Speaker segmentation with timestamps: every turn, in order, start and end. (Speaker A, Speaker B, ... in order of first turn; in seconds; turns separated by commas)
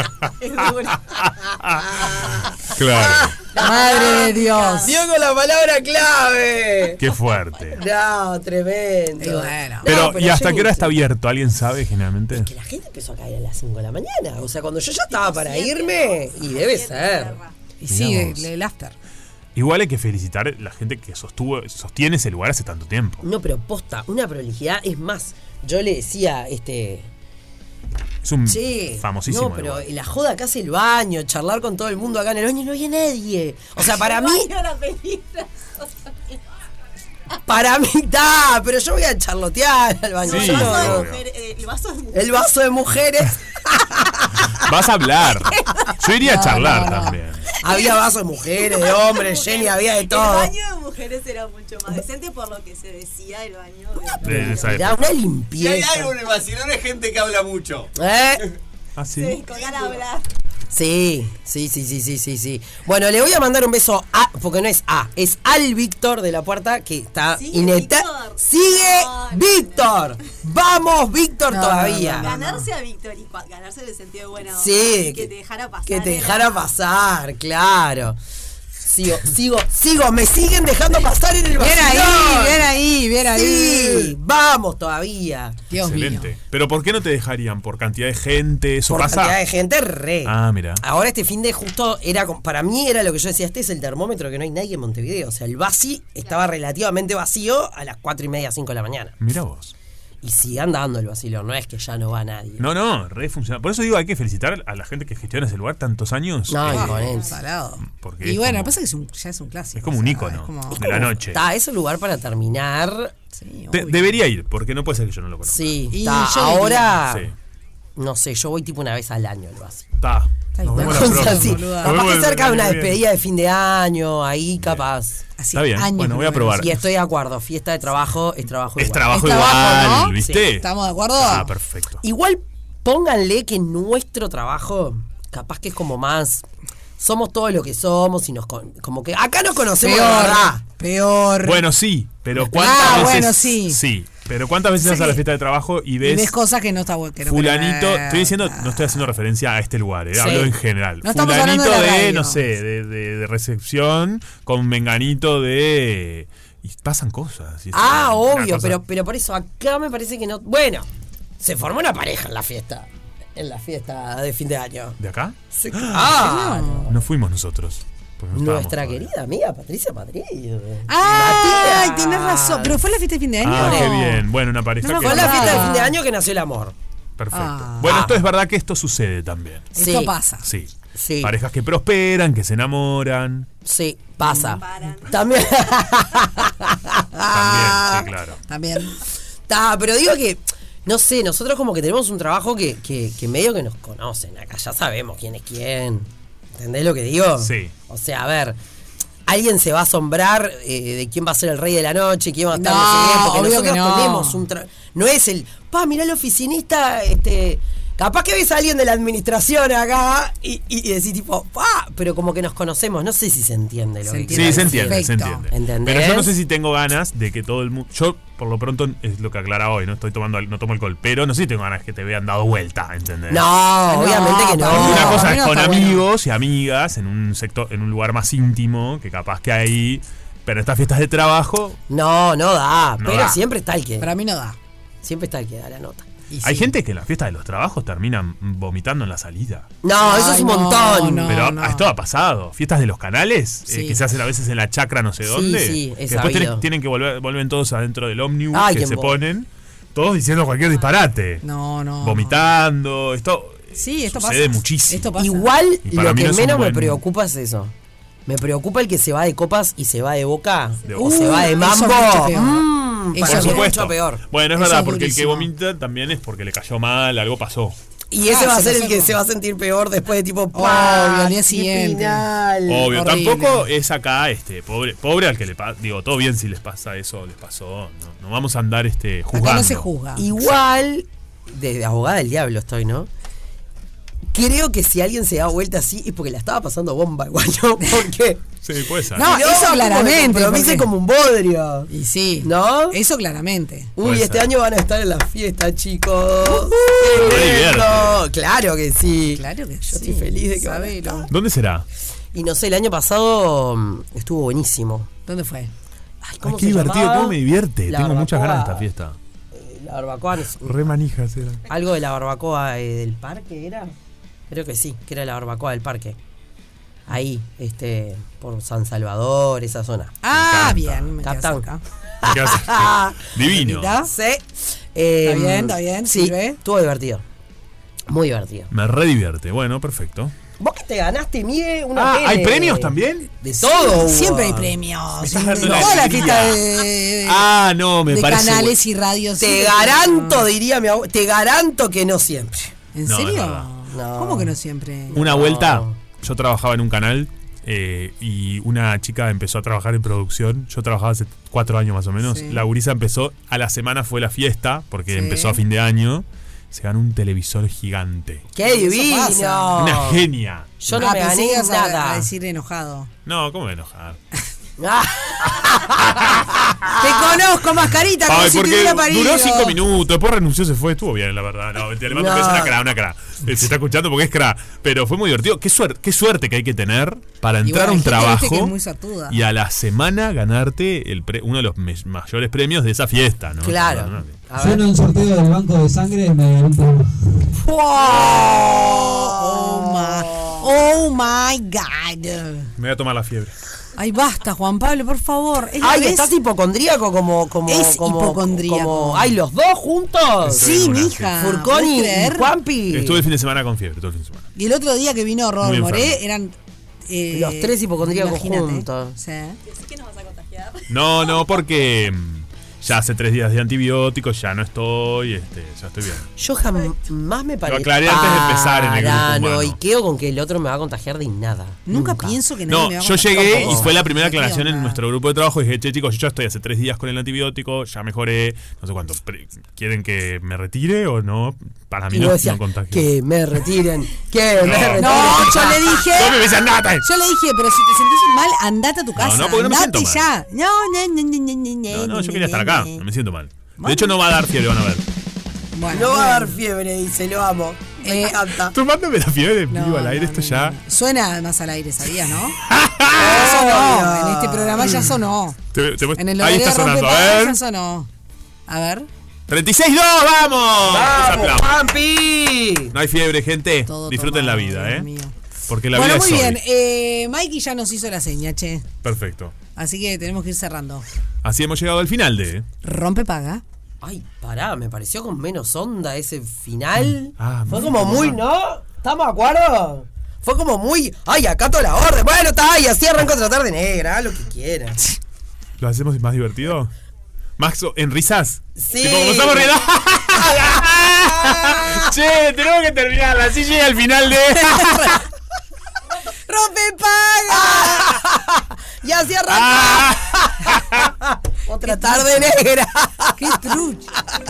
Speaker A: 0.4-1.0, Speaker B: 1.2-1.8, Speaker C: 1.9-7.0, Speaker B: 2.8-3.4, Speaker A: 3.6-5.0, Speaker D: 3.6-4.9, Speaker B: 7.0-7.8, Speaker C: 7.8-10.9, Speaker D: 9.2-9.9, Speaker B: 9.8-12.5, Speaker C: 12.3-17.4, Speaker A: 15.1-17.5, Speaker D: 17.8-19.0, Speaker B: 17.9-18.5, Speaker B: 19.6-23.2, Speaker C: 23.2-27.1, Speaker B: 28.2-29.9, Speaker C: 28.5-34.5, Speaker A: 33.8-35.8, Speaker C: 37.5-41.1, Speaker A: 40.2-42.5, Speaker B: 40.2-41.2, Speaker C: 42.1-44.3, Speaker B: 44.6-47.5, Speaker A: 45.5-45.9, Speaker D: 46.2-47.2, Speaker C: 47.6-50.5, Speaker A: 48.5-54.7, Speaker B: 54.2-55.1, Speaker C: 54.4-56.2, Speaker E: 55.5-57.9, Speaker C: 58.0-58.4, Speaker B: 59.0-59.4, Speaker A: 59.2-60.3, Speaker C: 60.7-72.5, Speaker A: 67.3-69.8, Speaker D: 71.5-72.5, Speaker A: 72.1-76.7, Speaker C: 74.5-75.3, Speaker C: 75.8-78.2, Speaker C: 78.8-82.7, Speaker D: 81.6-84.2, Speaker C: 83.3-85.6, Speaker D: 85.7-86.3, Speaker B: 85.8-89.4, Speaker C: 88.9-99.2, Speaker B: 90.2-90.8, Speaker B: 99.2-99.7, Speaker C: 100.2-102.6, Speaker B: 102.6-107.2, Speaker C: 106.5-107.3, Speaker D: 106.7-111.0, Speaker B: 107.8-108.8, Speaker B: 109.8-111.4, Speaker C: 110.8-113.1, Speaker D: 113.3-114.1, Speaker B: 113.7-115.8, Speaker C: 115.5-117.3, Speaker D: 115.9-117.0, Speaker B: 117.1-117.3, Speaker C: 118.0-119.9, Speaker B: 120.0-123.0, Speaker D: 120.6-122.0, Speaker C: 120.7-125.2, Speaker B: 124.6-124.9, Speaker D: 125.4-126.8, Speaker B: 125.5-126.9, Speaker C: 126.6-130.5, Speaker B: 128.8-132.0, Speaker D: 129.1-131.5, Speaker C: 132.0-136.4, Speaker C: 137.0-140.6, Speaker D: 139.8-141.6, Speaker B: 141.4-146.4, Speaker D: 142.4-143.8, Speaker C: 142.7-143.1, Speaker D: 144.8-145.2, Speaker D: 146.0-149.0, Speaker B: 147.2-158.8, Speaker C: 150.1-150.5, Speaker D: 151.0-152.4, Speaker C: 157.7-160.9, Speaker C: 161.4-165.0, Speaker B: 165.0-166.2, Speaker C: 165.5-166.9, Speaker D: 166.1-166.9, Speaker B: 166.9-169.1, Speaker C: 168.3-172.8, Speaker D: 170.9-174.2, Speaker B: 173.4-175.9, Speaker C: 173.5-173.9, Speaker D: 174.8-176.0, Speaker C: 175.0-176.8, Speaker B: 177.2-179.8, Speaker D: 177.3-178.0, Speaker C: 177.8-178.2, Speaker D: 179.8-180.5, Speaker C: 179.8-180.2, Speaker B: 180.4-183.5, Speaker C: 180.9-181.3, Speaker C: 183.7-188.1, Speaker D: 184.2-184.6, Speaker A: 184.6-185.5, Speaker B: 187.3-188.4, Speaker D: 188.5-188.9, Speaker C: 189.5-198.6, Speaker B: 197.4-197.7, Speaker C: 199.3-216.3, Speaker D: 202.5-204.4, Speaker D: 214.0-215.5, Speaker B: 214.3-223.5, Speaker C: 223.3-225.3, Speaker D: 223.9-226.1, Speaker B: 224.7-231.8, Speaker C: 231.9-234.1, Speaker B: 233.0-233.4, Speaker D: 234.0-234.6, Speaker C: 235.0-236.1, Speaker D: 236.3-236.7, Speaker B: 236.4-239.7, Speaker C: 239.8-241.3, Speaker D: 240.0-241.9, Speaker B: 241.2-251.4, Speaker D: 243.7-244.0, Speaker C: 245.2-246.6, Speaker C: 248.5-249.2, Speaker D: 251.4-252.4, Speaker B: 252.0-255.2, Speaker D: 253.8-255.5, Speaker C: 255.2-257.7, Speaker B: 255.8-257.0, Speaker C: 258.3-264.2, Speaker B: 260.9-261.6, Speaker D: 261.0-263.8, Speaker B: 263.2-267.8, Speaker D: 264.6-265.5, Speaker C: 268.1-272.9, Speaker D: 268.2-269.2, Speaker D: 270.5-272.3, Speaker B: 272.7-279.9, Speaker D: 272.9-273.7, Speaker D: 279.3-280.4, Speaker C: 280.2-283.1, Speaker C: 284.3-288.4, Speaker B: 288.6-289.4, Speaker D: 289.1-290.9, Speaker C: 289.1-291.9, Speaker D: 291.9-293.9, Speaker C: 292.4-293.0, Speaker C: 294.0-301.3, Speaker B: 294.0-294.5, Speaker B: 296.6-298.3, Speaker D: 299.3-301.3, Speaker B: 301.3-301.9, Speaker C: 302.3-305.1, Speaker D: 305.3-305.7, Speaker C: 306.2-308.9, Speaker B: 306.4-309.2, Speaker C: 309.5-310.8, Speaker B: 310.6-311.6, Speaker C: 311.7-313.9, Speaker C: 314.5-316.2, Speaker C: 317.1-320.2, Speaker D: 320.2-321.8, Speaker B: 320.3-321.1, Speaker C: 321.2-321.7, Speaker C: 322.2-323.3, Speaker B: 322.2-324.0, Speaker D: 323.6-324.1, Speaker C: 324.0-327.2, Speaker D: 325.2-326.6, Speaker C: 328.1-328.7, Speaker B: 328.7-330.3, Speaker C: 330.6-334.8, Speaker B: 331.9-333.3, Speaker D: 333.6-337.4, Speaker B: 335.2-338.8, Speaker C: 335.3-336.0, Speaker D: 338.1-340.5, Speaker C: 339.4-342.8, Speaker D: 342.9-345.2, Speaker B: 343.1-343.7, Speaker C: 343.9-344.6, Speaker C: 345.1-345.9, Speaker B: 345.1-358.5, Speaker D: 352.2-352.6, Speaker D: 355.1-355.6, Speaker C: 358.6-360.2, Speaker D: 358.6-359.8, Speaker B: 359.8-361.1, Speaker C: 360.8-362.3, Speaker D: 360.9-363.1, Speaker B: 363.3-364.2, Speaker C: 364.8-367.4, Speaker D: 367.0-369.8, Speaker B: 368.2-378.8, Speaker C: 372.1-372.8, Speaker D: 377.6-379.4, Speaker B: 379.3-384.4, Speaker C: 383.6-384.9, Speaker F: 384.6-387.4, Speaker C: 387.6-390.7, Speaker D: 388.0-392.7, Speaker B: 392.8-393.6, Speaker D: 394.0-396.3, Speaker C: 395.8-403.2, Speaker D: 397.7-399.4, Speaker B: 400.4-401.5, Speaker D: 400.5-402.5, Speaker B: 402.9-404.5, Speaker D: 404.6-406.6, Speaker B: 405.6-406.2, Speaker D: 407.1-409.6, Speaker C: 407.3-409.2, Speaker A: 409.6-411.3, Speaker B: 410.9-416.3, Speaker C: 416.4-422.4, Speaker B: 417.7-419.8, Speaker D: 421.9-425.0, Speaker B: 422.7-433.1, Speaker C: 423.4-423.9, Speaker C: 432.1-436.0, Speaker B: 434.6-437.1, Speaker D: 435.0-436.4, Speaker D: 437.0-443.0, Speaker B: 439.2-440.3, Speaker B: 441.9-445.0, Speaker D: 443.8-444.2, Speaker D: 445.7-446.6, Speaker C: 445.9-448.8, Speaker D: 448.0-448.4, Speaker B: 448.7-450.8, Speaker D: 449.7-452.6, Speaker B: 452.6-453.5, Speaker C: 453.2-455.0, Speaker D: 453.2-455.6, Speaker B: 454.8-455.2, Speaker B: 455.7-457.6, Speaker D: 456.2-458.1, Speaker D: 458.7-459.1, Speaker B: 459.5-461.8, Speaker C: 460.8-462.9, Speaker B: 462.9-465.1, Speaker D: 463.9-465.3, Speaker B: 465.7-466.6, Speaker D: 465.9-468.9, Speaker B: 469.0-469.5, Speaker D: 469.8-471.1, Speaker B: 471.4-472.7, Speaker D: 472.8-473.6, Speaker C: 474.0-485.0, Speaker B: 477.0-478.4, Speaker B: 485.8-486.9, Speaker B: 487.6-495.2, Speaker C: 488.8-489.8, Speaker C: 491.4-492.1, Speaker D: 494.7-495.1, Speaker D: 496.5-498.1, Speaker C: 497.5-500.7, Speaker B: 499.5-501.1, Speaker C: 501.7-503.7, Speaker D: 501.8-502.6, Speaker D: 503.4-504.1